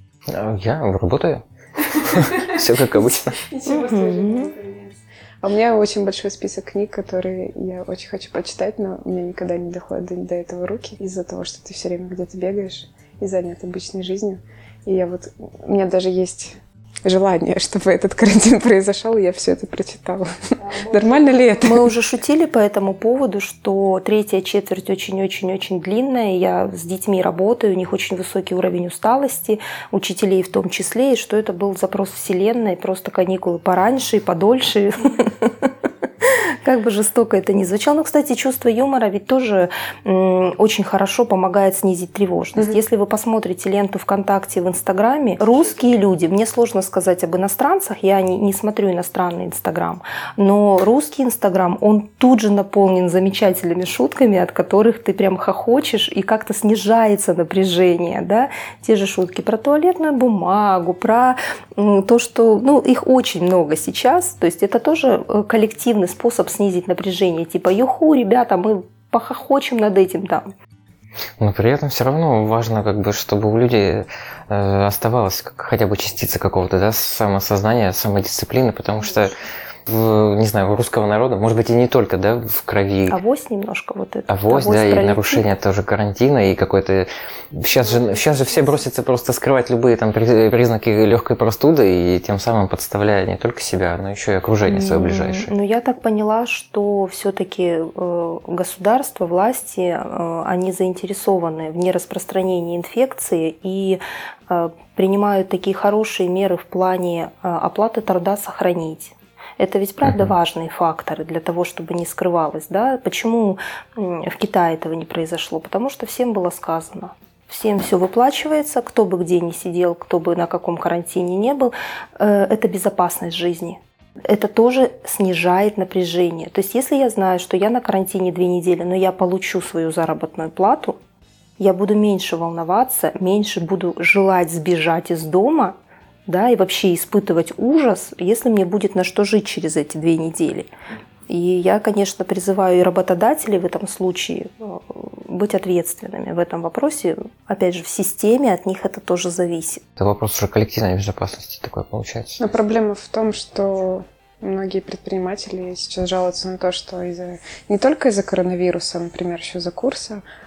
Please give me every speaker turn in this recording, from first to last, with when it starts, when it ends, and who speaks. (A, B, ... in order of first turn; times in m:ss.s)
0:00.3-0:03.4 A
0:02.1-0:21.9 B
0:03.7-0:04.5 C
0:21.6-0:35.7 C
0:36.2-1:10.5 C
1:11.4-1:19.3 A
1:19.9-1:23.2 A
1:23.1-1:25.4 C
1:24.3-1:35.5 A
1:34.7-2:11.0 C
2:11.6-2:20.7 C
2:21.3-2:29.8 C
2:30.0-2:32.5 A
2:32.4-2:40.2 B